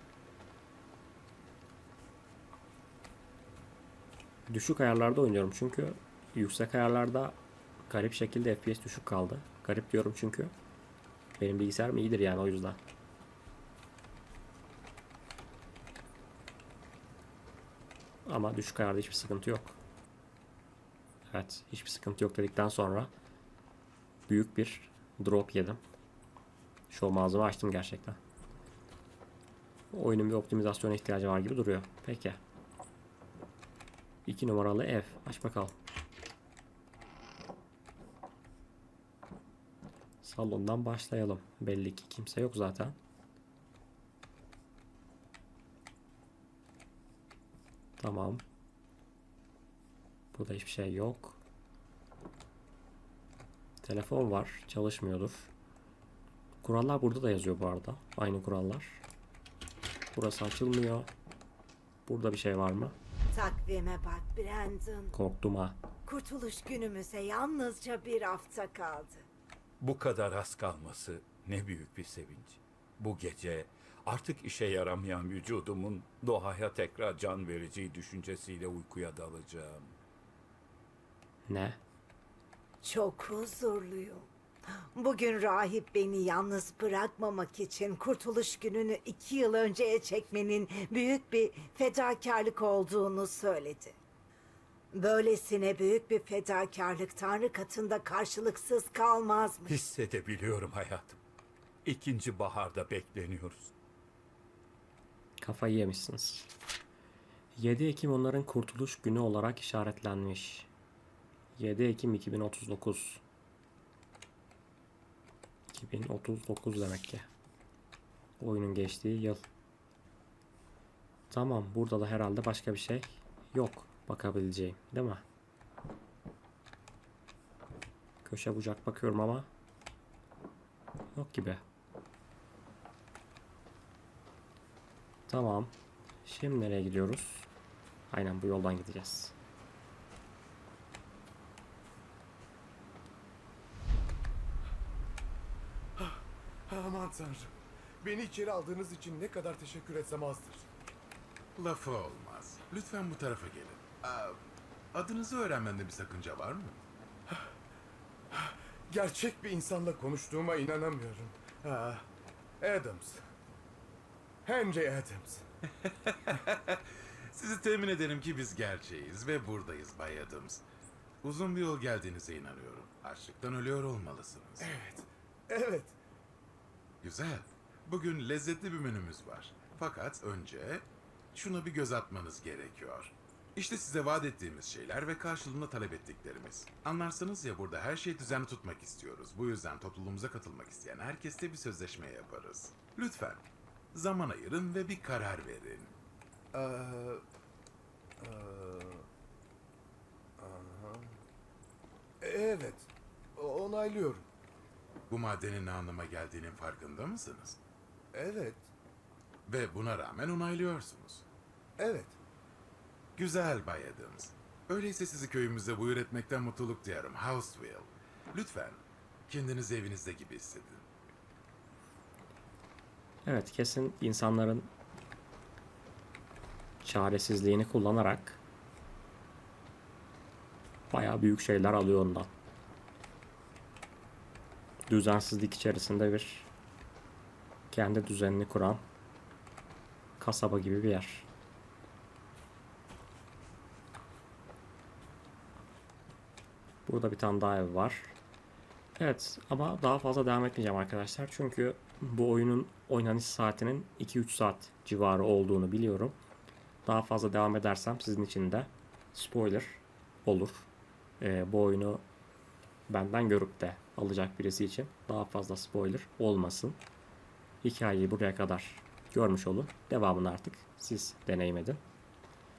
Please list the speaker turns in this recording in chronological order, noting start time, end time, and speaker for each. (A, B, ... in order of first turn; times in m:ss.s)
0:04.5-0:10.5 A
0:11.4-0:12.8 A
0:18.3-0:19.8 A
0:21.3-0:23.1 A
0:24.3-0:25.8 A
0:26.9-0:28.2 A
0:29.9-0:32.4 A
0:34.3-0:35.7 A
0:40.2-0:43.0 A
0:48.0-0:48.4 A
0:50.3-0:51.4 A
0:53.8-0:55.5 A
0:56.6-0:59.0 A
1:00.1-1:01.1 A
1:02.1-1:03.0 A
1:03.3-1:05.2 B
1:05.1-1:05.8 A
1:06.1-1:09.2 B
1:09.8-1:20.0 C
1:21.5-1:21.8 A
1:22.8-1:34.0 B
1:34.9-1:39.8 B
1:39.7-1:41.2 C
1:41.8-1:43.7 C
1:45.4-1:46.5 A
1:47.6-1:50.7 A
1:51.6-1:53.2 A
1:55.7-1:57.3 A
1:58.4-1:59.4 A
2:01.3-2:05.2 A
2:08.2-2:09.5 A
2:11.2-2:11.6 A
2:15.3-2:15.7 A
2:16.2-2:17.5 A
2:18.1-2:19.3 A
2:26.0-2:27.5 D
2:28.0-2:30.7 D
2:31.6-2:34.4 E
2:34.9-2:36.8 E
2:38.3-2:42.0 D
2:42.6-2:43.2 D
2:44.4-2:45.4 D
2:45.8-2:50.6 E
2:51.2-2:54.7 E
2:54.6-2:56.0 D
2:57.0-3:16.0 E
3:16.5-3:17.2 D
3:18.2-3:19.0 D
3:20.4-3:21.0 D
3:22.2-3:24.2 D
3:25.1-3:27.6 E
3:28.1-3:28.6 D
3:29.5-3:31.2 E
3:31.8-3:32.2 D
3:33.2-3:40.8 E
3:43.2-3:44.7 A
3:46.8-3:48.4 A
3:50.9-3:52.3 A
3:54.9-3:56.5 A
3:57.7-3:58.8 A
4:00.2-4:01.3 A
4:06.9-4:08.2 A
4:09.0-4:16.2 A
4:16.9-4:20.7 A
4:21.2-4:22.0 A
4:22.9-4:26.8 A
4:27.6-4:31.8 A